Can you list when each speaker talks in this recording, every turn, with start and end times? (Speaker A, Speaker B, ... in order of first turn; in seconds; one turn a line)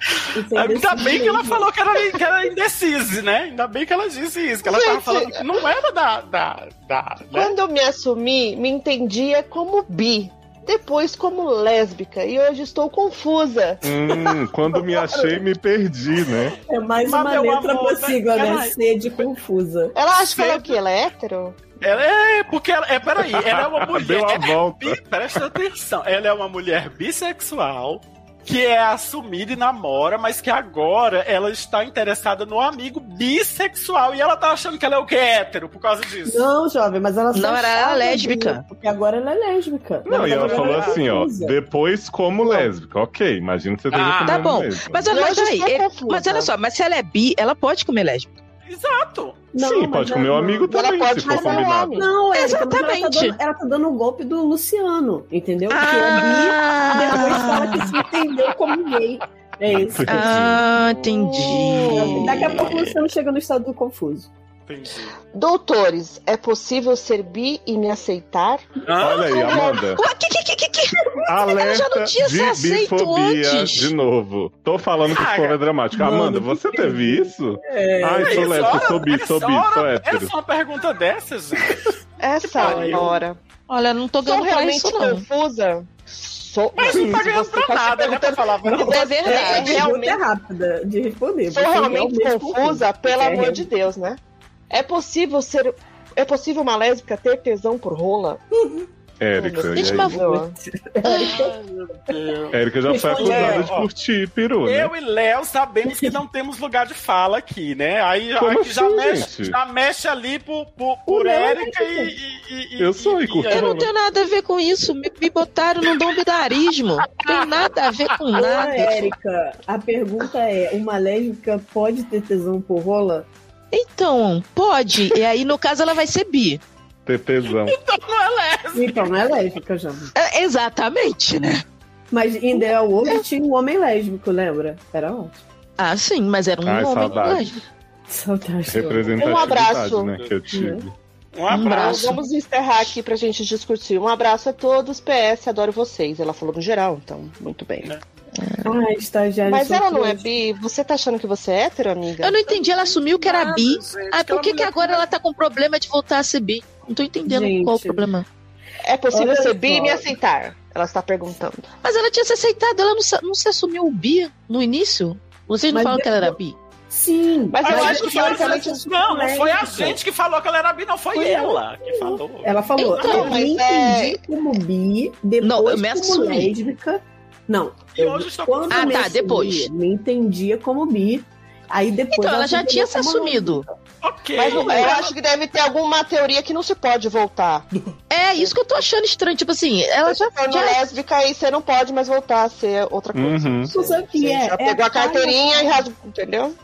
Speaker A: 0.3-1.7
Speaker B: 0.5-7.5
Speaker C: 4.6-5.4
Speaker C: 7.3-13.8
Speaker D: 13.8-16.6
Speaker A: 16.7-19.9
Speaker B: 17.0-18.7
Speaker C: 19.9-21.7
Speaker B: 20.3-20.8
Speaker B: 21.8-36.5
Speaker D: 23.2-25.0
Speaker A: 36.3-41.5
Speaker E: 37.3-38.6
Speaker D: 40.0-45.1
Speaker B: 40.1-41.0
Speaker A: 42.4-42.7
Speaker B: 43.9-44.5
Speaker E: 44.2-48.3
Speaker C: 45.1-46.5
Speaker B: 48.7-49.4
Speaker A: 49.5-50.7
Speaker D: 49.5-52.1
Speaker C: 50.7-52.1
Speaker A: 51.2-60.5
Speaker E: 52.2-53.4
Speaker E: 55.7-57.9
Speaker D: 59.7-60.7
Speaker E: 60.1-62.9
Speaker C: 61.0-62.5
Speaker A: 61.8-64.3
Speaker B: 64.7-65.1
Speaker C: 65.3-69.9
Speaker B: 68.8-69.5
Speaker D: 69.0-70.0
Speaker E: 69.9-73.9
Speaker D: 71.3-80.3
Speaker B: 75.1-75.6
Speaker A: 75.9-78.8
Speaker B: 78.2-81.9
Speaker C: 82.2-83.4
Speaker B: 82.4-83.1
Speaker A: 82.6-83.1
Speaker E: 83.7-85.2
Speaker C: 84.2-90.2
Speaker B: 86.8-89.2
Speaker A: 88.6-93.7
Speaker E: 88.9-89.8
Speaker C: 91.5-94.2
Speaker C: 94.7-98.4
Speaker D: 99.2-100.2
Speaker C: 99.4-100.5
Speaker E: 99.7-100.2
Speaker A: 100.1-101.5
Speaker B: 101.4-102.6
Speaker D: 102.5-104.9
Speaker A: 102.9-103.7
Speaker B: 103.1-103.9
Speaker B: 104.6-113.8
Speaker A: 105.9-106.1
Speaker D: 108.4-109.6
Speaker A: 111.1-112.1
Speaker D: 112.8-113.9
Speaker E: 113.5-119.1
Speaker B: 117.1-117.5
Speaker A: 118.3-123.3
Speaker E: 123.7-126.6
Speaker D: 127.0-127.8
Speaker B: 127.5-129.1
Speaker A: 128.7-130.1
Speaker E: 130.2-131.6
Speaker A: 132.1-135.4
Speaker E: 135.8-137.6
Speaker D: 136.6-137.5
Speaker A: 138.1-139.2
Speaker D: 138.7-140.9
Speaker B: 139.2-139.6
Speaker C: 139.2-140.1
Speaker A: 140.5-140.8
Speaker B: 141.3-142.2
Speaker E: 141.5-142.2
Speaker C: 141.5-147.9
Speaker A: 148.6-150.2
Speaker C: 149.5-152.5
Speaker E: 152.2-158.2
Speaker B: 153.2-155.1
Speaker A: 157.2-158.1
Speaker C: 158.8-161.7
Speaker A: 159.1-160.1
Speaker E: 161.8-166.6
Speaker A: 165.7-166.4
Speaker A: 166.9-170.0
Speaker C: 167.5-168.8
Speaker B: 167.6-173.3
Speaker A: 171.1-183.7
Speaker E: 172.8-173.3
Speaker C: 173.0-174.2
Speaker E: 175.4-176.5
Speaker B: 177.9-179.0
Speaker E: 178.7-179.7
Speaker E: 182.1-183.6
Speaker B: 184.0-185.1
Speaker C: 184.4-187.7
Speaker E: 188.1-190.9
Speaker C: 190.0-196.5
Speaker D: 193.1-193.7
Speaker A: 193.7-195.8